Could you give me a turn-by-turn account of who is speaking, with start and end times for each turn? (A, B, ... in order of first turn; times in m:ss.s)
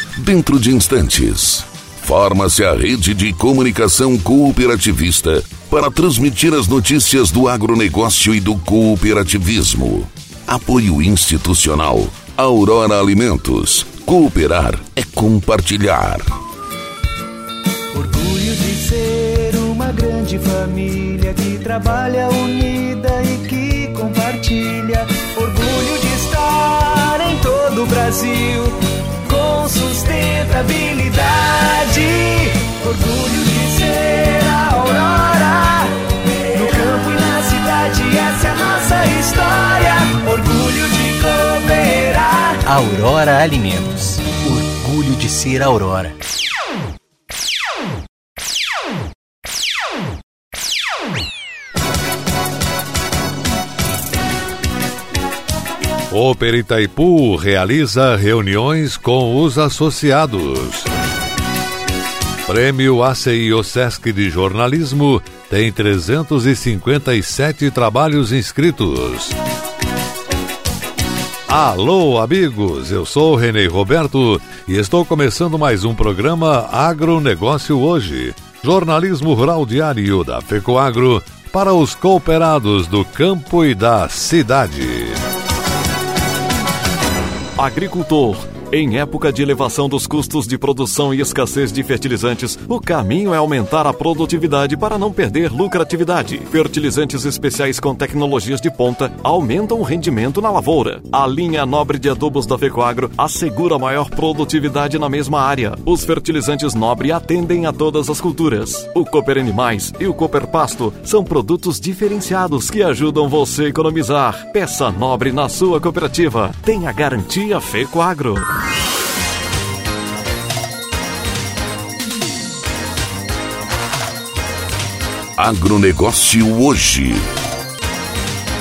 0:00.2-0:16.4 A
0:17.9-0:42.6 B
0:42.7-0:46.2 C
0:56.1-1:00.9 D
1:02.4-1:09.4 D
1:11.5-1:25.2 D
1:27.6-1:58.5 E
2:05.4-2:07.3 A